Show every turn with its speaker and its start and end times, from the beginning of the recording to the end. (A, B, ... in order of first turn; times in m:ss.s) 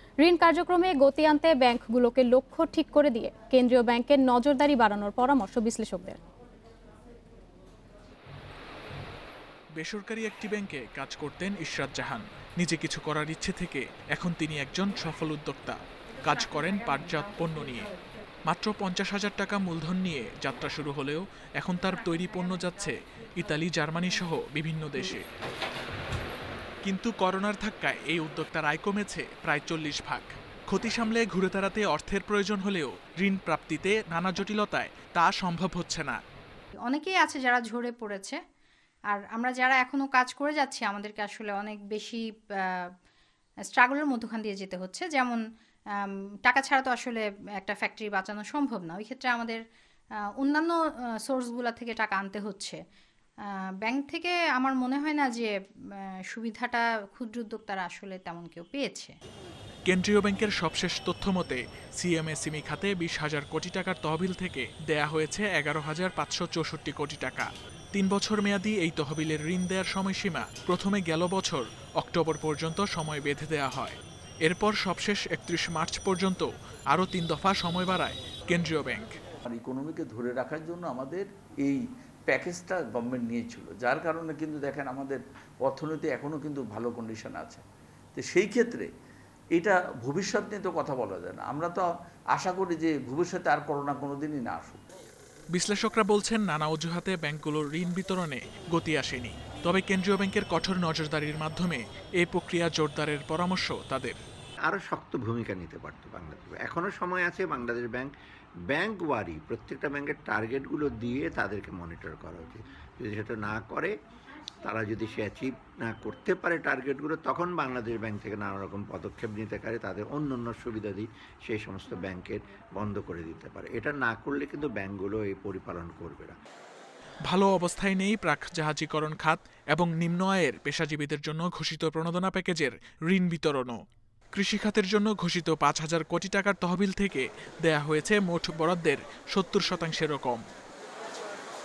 0:00.2-0:06.2 A
0:09.8-0:17.9 B
0:18.5-0:25.2 B
0:26.8-0:36.2 B
0:36.8-0:38.4 C
0:39.1-0:42.9 C
0:43.7-0:45.4 C
0:45.9-0:49.6 C
0:50.3-0:52.8 C
0:53.5-0:59.2 C
0:59.9-1:19.2 B
1:19.5-1:27.6 D
1:28.2-1:28.9 D
1:29.6-1:34.8 D
1:35.5-1:44.2 B
1:44.7-1:48.1 E
1:48.7-1:53.9 E
1:54.6-2:06.4 E
2:07.3-2:13.8 B
2:14.3-2:20.4 B